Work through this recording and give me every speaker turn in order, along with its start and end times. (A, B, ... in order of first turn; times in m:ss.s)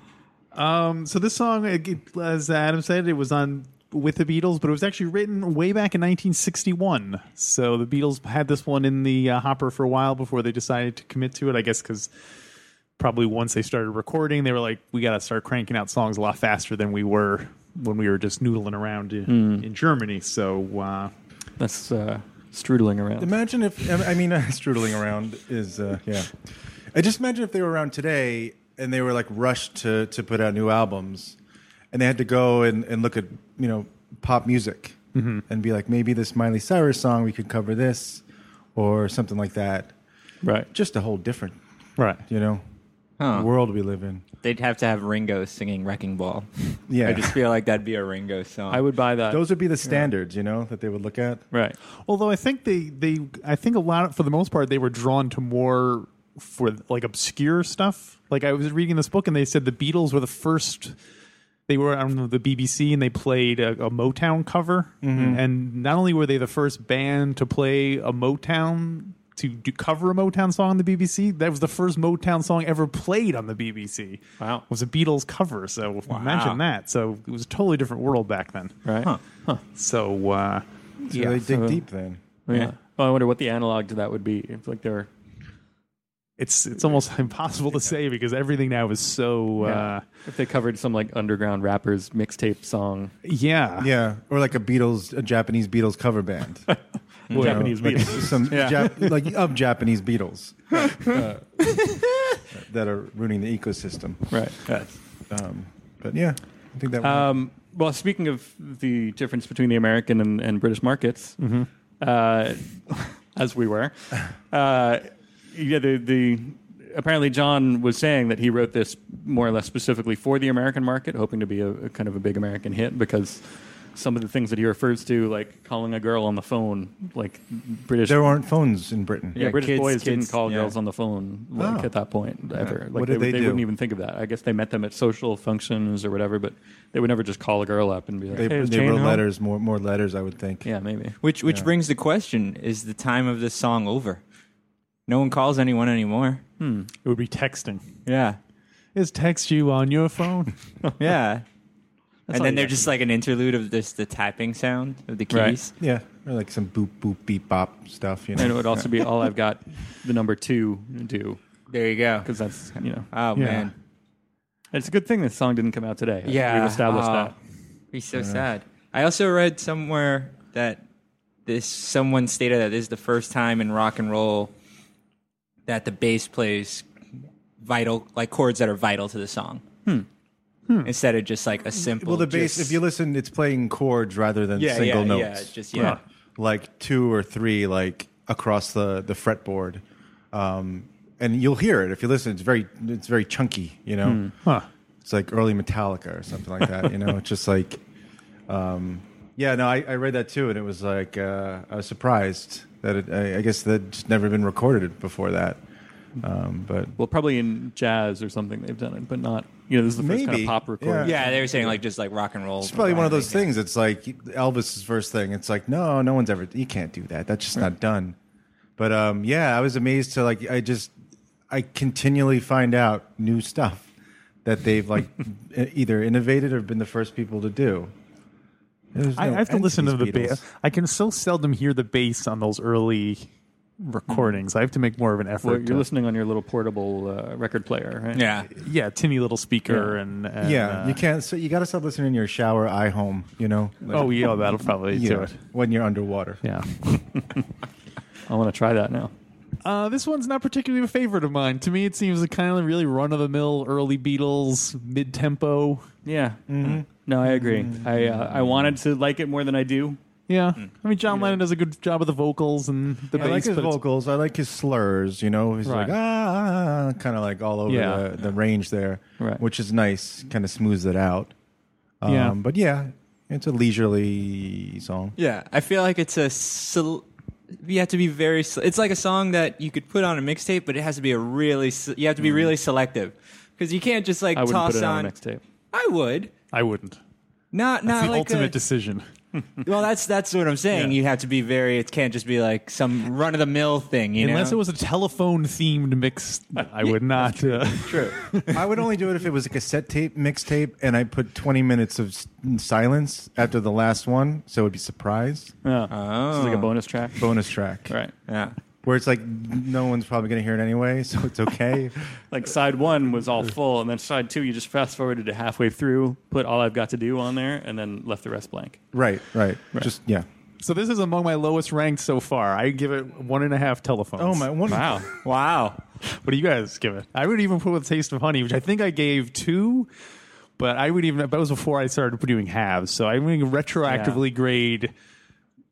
0:00.5-0:12.1 A
0:13.0-0:21.1 A
0:19.3-0:19.7 B
0:21.6-0:23.4 B
0:23.2-0:26.4 C
0:26.9-0:31.4 C
0:31.9-0:35.0 C
0:35.2-0:35.4 A
0:35.5-0:38.2 C
0:38.8-0:39.9 C
0:40.4-0:40.7 B
0:40.7-0:41.6 C
0:42.3-0:42.6 C
0:43.2-0:43.5 D
0:43.3-0:44.2 C
0:44.4-0:48.8 D
0:46.9-0:47.4 C
0:48.7-0:49.4 B
0:49.3-0:51.4 C
0:51.5-0:51.8 B
0:52.1-1:01.0 A
1:01.7-1:18.7 A
1:05.0-1:05.4 C
1:16.1-1:16.6 D
1:18.8-1:19.6 B
1:19.7-1:20.6 A
1:21.1-1:21.8 B
1:21.1-1:22.2 C
1:22.5-1:25.1 B
1:26.4-1:30.0 A
1:29.6-1:33.1 B
1:33.2-1:33.9 A
1:33.8-1:36.7 C
1:37.3-1:37.6 D
1:37.3-1:38.7 B
1:37.3-1:41.6 C
1:38.5-1:38.9 D
1:41.7-1:42.0 D
1:42.5-1:44.3 C
1:44.3-1:44.6 B
1:44.7-1:44.9 D
1:45.3-1:47.4 C
1:47.0-1:51.4 B
1:51.4-1:51.7 A
1:52.0-2:08.4 B
2:08.1-2:09.4 C
2:09.4-2:10.7 D
2:09.4-2:19.2 B
2:11.6-2:11.9 C
2:12.6-2:13.6 C
2:18.3-2:20.7 C
2:20.6-2:21.2 B
2:21.2-2:24.2 D
2:21.4-2:21.7 C
2:25.1-2:26.4 D
2:26.6-2:26.9 B
2:27.0-2:27.8 A
2:28.1-2:28.4 D
2:29.0-2:30.6 A
2:31.0-2:31.4 D
2:32.3-2:32.9 B
2:32.3-2:35.7 D
2:35.3-2:35.6 B
2:35.8-2:38.9 C
2:38.4-2:41.4 B
2:41.7-2:42.3 D
2:42.2-2:43.1 B
2:43.1-2:43.7 D
2:43.4-2:43.7 A
2:44.7-2:47.4 B
2:46.2-2:47.3 D
2:47.9-2:50.8 D
2:48.2-2:48.4 C
2:51.5-2:54.5 D
2:55.7-2:56.9 D
2:57.6-2:59.6 D
3:00.7-3:00.9 A
3:00.8-3:02.8 D
3:01.9-3:05.6 C
3:04.6-3:06.0 D
3:06.4-3:14.3 C
3:14.0-3:14.3 B
3:15.0-3:17.8 C
3:18.5-3:25.6 C
3:26.2-3:26.9 C
3:27.0-3:31.7 B
3:30.0-3:31.8 C
3:31.0-3:33.5 D
3:32.6-3:38.2 C
3:38.8-3:40.9 C
3:41.5-3:43.9 C
3:44.4-3:47.9 C
3:48.9-3:50.4 C
3:49.2-3:53.3 A
3:53.8-3:55.9 A
3:55.4-3:58.3 B
3:58.1-3:58.5 D
3:58.5-4:01.0 A
3:59.7-4:00.0 B
4:00.4-4:06.4 C
4:03.9-4:05.4 A
4:06.4-4:07.0 A
4:08.3-4:09.1 B
4:09.6-4:15.9 A
4:16.0-4:20.0 B
4:16.5-4:18.7 C
4:20.3-4:23.8 A
4:21.1-4:21.4 B
4:23.1-4:31.3 C
4:27.7-4:28.1 A
4:32.0-4:35.2 C
4:32.1-4:32.4 A
4:35.2-4:37.0 D
4:37.6-4:45.1 D
4:44.3-4:45.4 B
4:45.7-4:46.3 D
4:46.5-4:47.0 A
4:47.5-4:48.6 D
4:47.9-4:49.0 A
4:49.6-4:54.6 D
4:54.2-4:58.2 A
4:56.6-4:57.8 B
4:57.8-4:58.6 D
4:58.5-5:05.5 C
5:05.6-5:08.1 B
5:05.9-5:06.7 D
5:07.2-5:07.9 C
5:08.3-5:08.6 D
5:08.8-5:12.2 C
5:12.3-5:18.8 B
5:18.9-5:20.3 C
5:20.6-5:24.5 A
5:24.2-5:25.1 C
5:24.7-5:25.1 B
5:25.2-5:25.8 D
5:26.1-5:29.9 A
5:30.6-5:34.9 A
5:33.8-5:34.2 B